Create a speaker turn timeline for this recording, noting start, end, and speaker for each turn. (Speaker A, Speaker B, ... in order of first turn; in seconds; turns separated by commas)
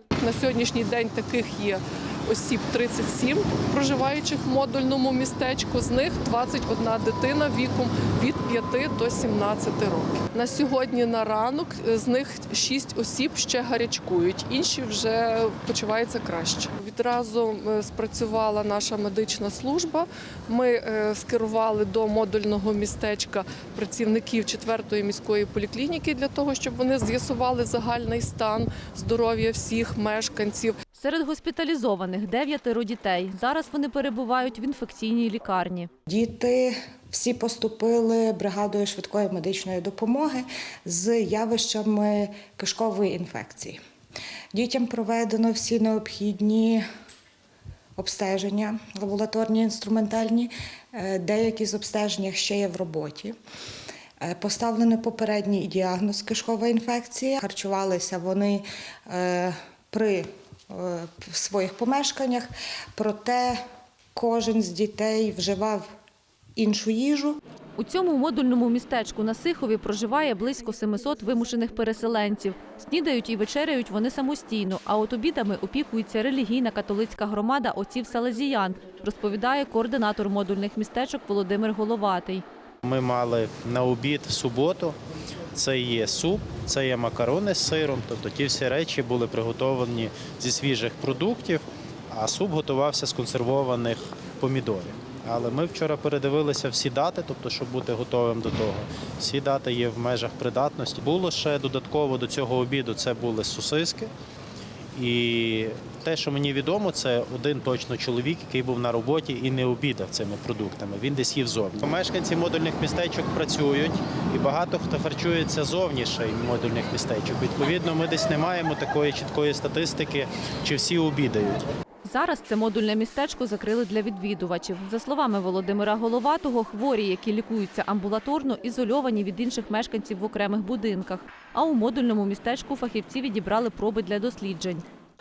Speaker A: 0.1-30.7, Speaker B: 30.9-35.9, Speaker C: 36.1-43.8, Speaker C: 44.5-46.9, Speaker C: 48.0-53.4, Speaker C: 54.2-63.6, Speaker C: 64.1-65.9, Speaker C: 66.5-67.4, Speaker B: 67.8-82.4, Speaker D: 82.8-85.0, Speaker D: 85.5-104.1, Speaker D: 104.9-121.7, Speaker B: 122.0-134.8